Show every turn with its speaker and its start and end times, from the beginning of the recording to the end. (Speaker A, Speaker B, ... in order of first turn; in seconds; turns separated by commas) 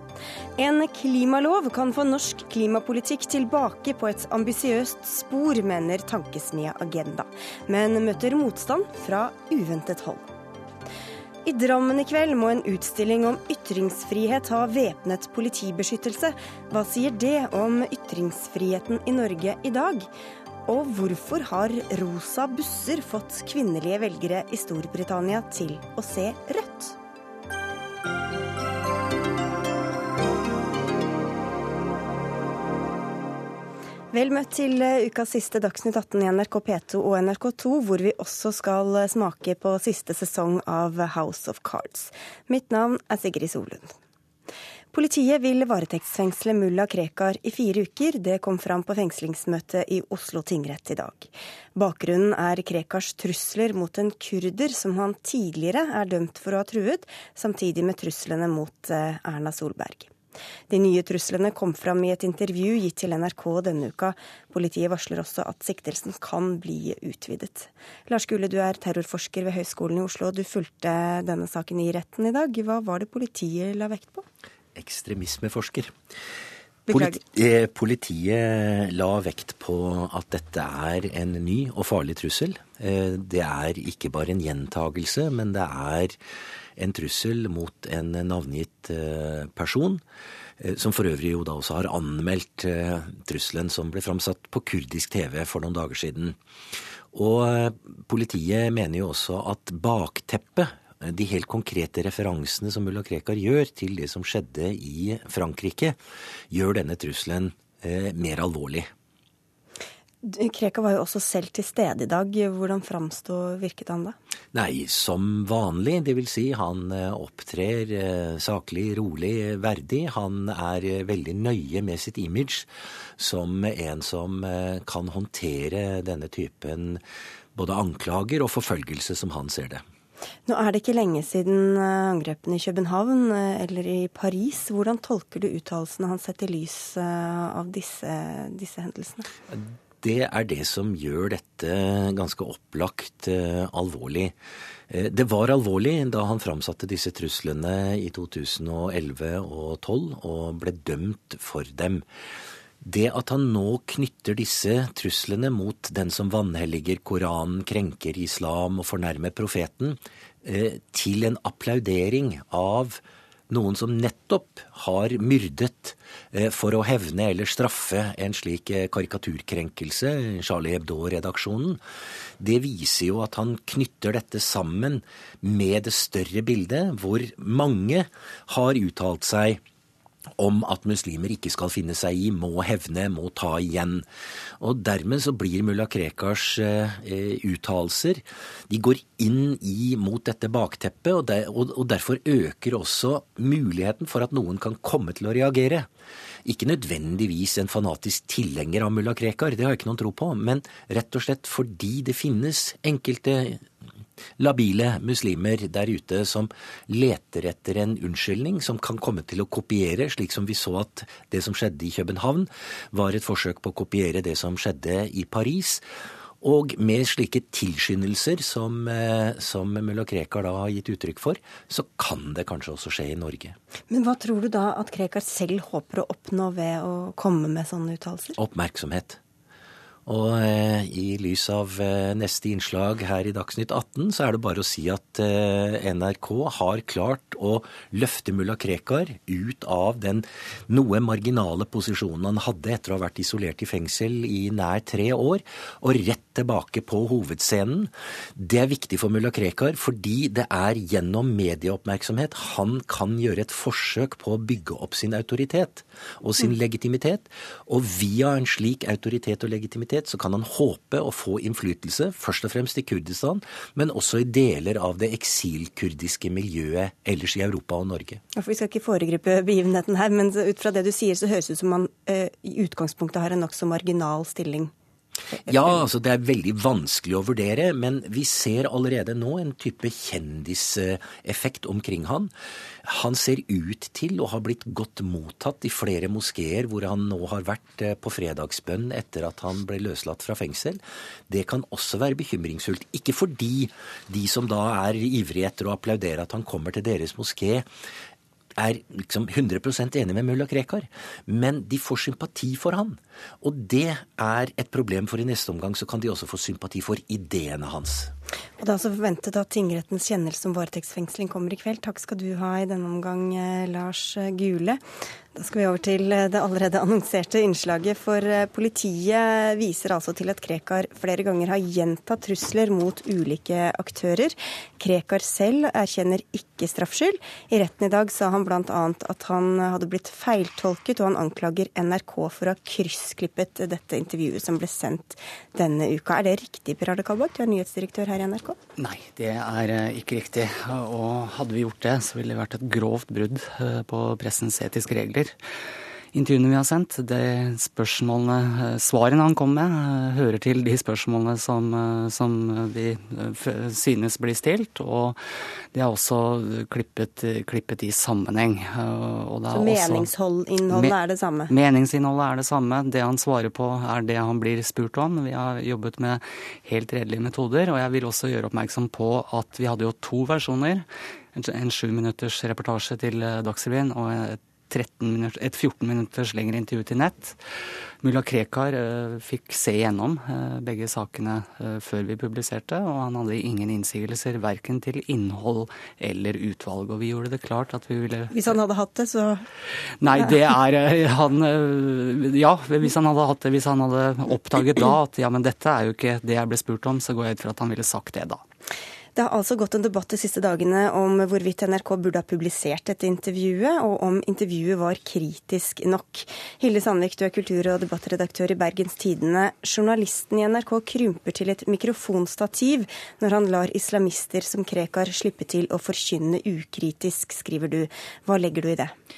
Speaker A: 0.6-10.3, Speaker A: 11.4-20.1, Speaker A: 20.7-27.0, Speaker A: 34.1-44.0, Speaker A: 44.9-60.1, Speaker A: 60.7-74.3, Speaker B: 74.8-75.9, Speaker A: 76.9-77.2, Speaker B: 76.9-86.2, Speaker B: 86.8-90.0, Speaker B: 90.6-96.4, Speaker B: 97.1-106.0, Speaker B: 106.5-108.9, Speaker A: 110.2-114.2, Speaker B: 114.5-127.0, Speaker B: 127.5-129.8, Speaker A: 130.5-139.3, Speaker B: 139.5-144.3, Speaker B: 144.9-152.1, Speaker B: 152.8-171.8, Speaker B: 172.4-179.6, Speaker B: 180.4-184.1, Speaker B: 184.6-195.9, Speaker B: 196.4-203.7, Speaker B: 204.4-215.8, Speaker B: 216.4-223.6, Speaker A: 223.9-228.4, Speaker B: 228.4-229.2, Speaker B: 230.1-268.2, Speaker A: 268.4-274.7, Speaker A: 275.4-275.8, Speaker B: 275.5-282.3, Speaker B: 282.8-297.7, Speaker B: 298.6-308.1, Speaker A: 308.6-314.8, Speaker A: 315.4-338.6, Speaker C: 338.8-345.3, Speaker C: 346.1-355.2, Speaker C: 355.7-360.1, Speaker A: 359.5-361.5, Speaker C: 361.5-377.4, Speaker C: 378.0-388.6, Speaker A: 388.3-389.4, Speaker C: 390.0-398.4, Speaker A: 399.2-418.9